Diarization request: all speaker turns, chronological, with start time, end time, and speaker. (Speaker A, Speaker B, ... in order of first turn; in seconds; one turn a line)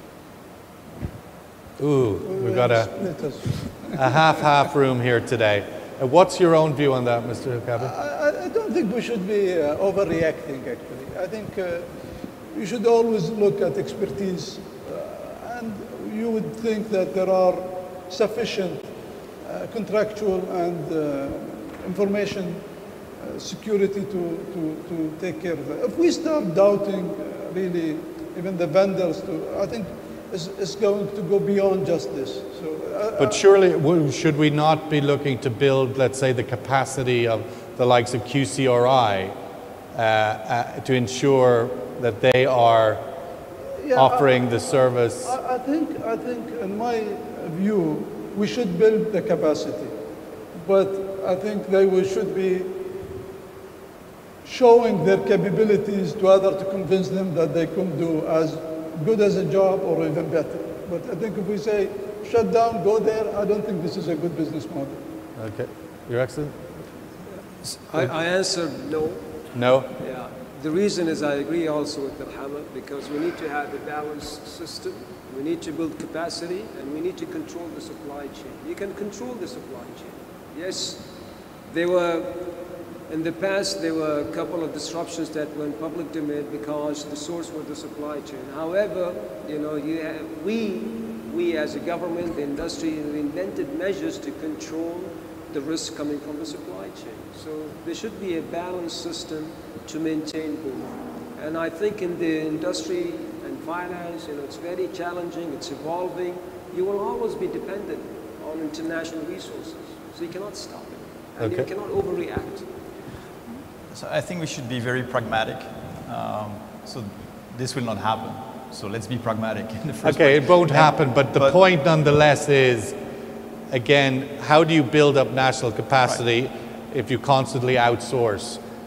Speaker A: 1.8-2.9
Speaker B: 2.2-4.2
Speaker A: 3.9-7.9
Speaker B: 7.8-11.9
Speaker B: 12.5-18.9
Speaker B: 19.4-22.6
Speaker B: 23.2-33.4
Speaker A: 33.2-39.4
Speaker A: 39.9-43.0
Speaker B: 43.8-44.4
Speaker A: 44.0-45.4
Speaker B: 45.2-50.0
Speaker B: 50.6-52.8
Speaker B: 54.4-65.0
Speaker A: 65.4-66.7
Speaker C: 67.8-69.2
Speaker A: 69.5-69.9
Speaker C: 70.0-81.1
Speaker C: 81.7-112.7
Speaker A: 111.4-111.7
Speaker D: 113.9-121.6
Speaker A: 120.0-123.0
Speaker A: 123.7-128.6